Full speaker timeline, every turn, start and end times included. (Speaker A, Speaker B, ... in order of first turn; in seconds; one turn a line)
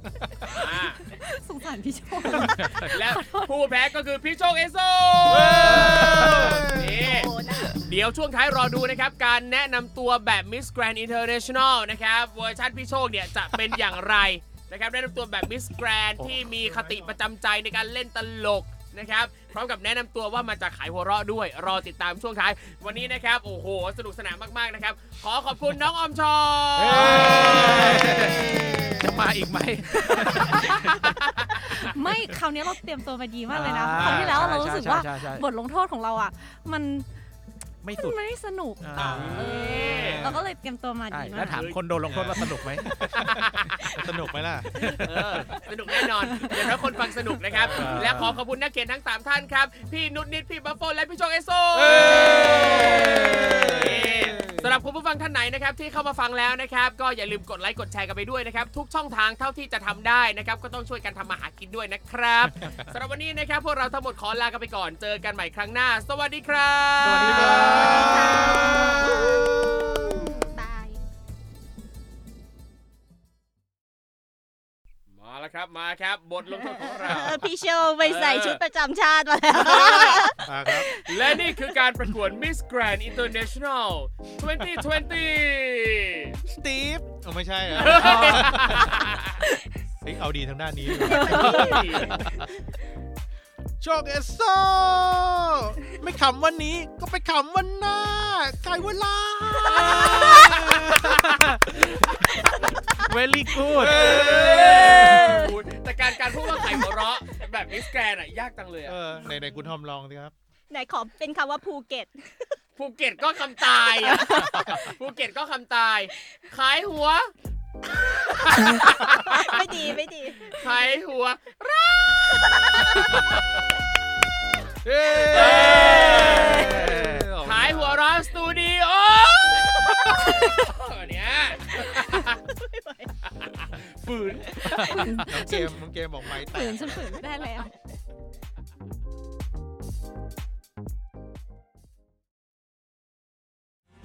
Speaker A: 0.2-0.5
Speaker B: 0.5-1.0
Speaker A: 1.0-3.6
Speaker C: 2.6-2.9
Speaker B: 2.8-28.0
Speaker D: 5.3-7.2
Speaker C: 5.7-6.4
Speaker E: 6.9-7.7
Speaker C: 16.2-16.5
Speaker D: 16.6-17.1
Speaker C: 26.8-31.2
Speaker D: 27.0-29.0
Speaker B: 30.6-31.3
Speaker A: 31.5-37.1
Speaker C: 33.5-35.4
Speaker D: 34.0-34.5
Speaker C: 37.8-38.2
Speaker A: 38.0-41.6
Speaker C: 38.8-39.4
Speaker B: 38.9-40.2
Speaker D: 39.0-40.5
Speaker C: 41.1-42.9
Speaker B: 41.5-41.9
Speaker D: 42.1-44.7
Speaker B: 43.2-43.6
Speaker C: 44.8-45.5
Speaker B: 44.9-67.9
Speaker D: 47.5-48.4
Speaker C: 47.7-48.3
Speaker D: 51.7-54.7
Speaker C: 67.0-68.8
Speaker E: 67.2-69.5
Speaker D: 67.3-70.1
Speaker E: 70.1-71.0
Speaker B: 75.1-77.5
Speaker E: 76.5-81.7
Speaker D: 77.1-77.4
Speaker B: 78.0-78.6
Speaker B: 79.5-80.2
Speaker D: 79.7-80.9
Speaker B: 80.9-86.3
Speaker D: 86.4-89.0
Speaker B: 87.8-89.3
Speaker E: 88.0-88.5
Speaker D: 90.0-91.8
Speaker E: 91.0-92.2
Speaker B: 91.1-92.2
Speaker A: 91.2-91.5
Speaker C: 91.3-92.1
Speaker D: 93.8-101.8
Speaker B: 99.7-101.1
Speaker E: 99.9-100.5
Speaker C: 100.3-102.5
Speaker C: 103.0-104.0
Speaker D: 103.7-105.2
Speaker B: 103.7-109.0
Speaker E: 104.8-105.4
Speaker C: 104.8-105.3
Speaker D: 108.8-110.3
Speaker E: 109.2-109.7
Speaker E: 110.7-112.6
Speaker B: 112.8-117.3
Speaker E: 114.1-114.8
Speaker B: 118.1-119.4
Speaker E: 119.2-120.6
Speaker B: 120.5-123.4
Speaker D: 124.8-128.0
Speaker B: 125.3-132.3
Speaker E: 126.2-126.6
Speaker C: 126.7-127.3
Speaker E: 132.5-133.1
Speaker B: 133.6-134.9
Speaker C: 134.6-135.2
Speaker A: 134.8-137.7
Speaker D: 135.3-137.2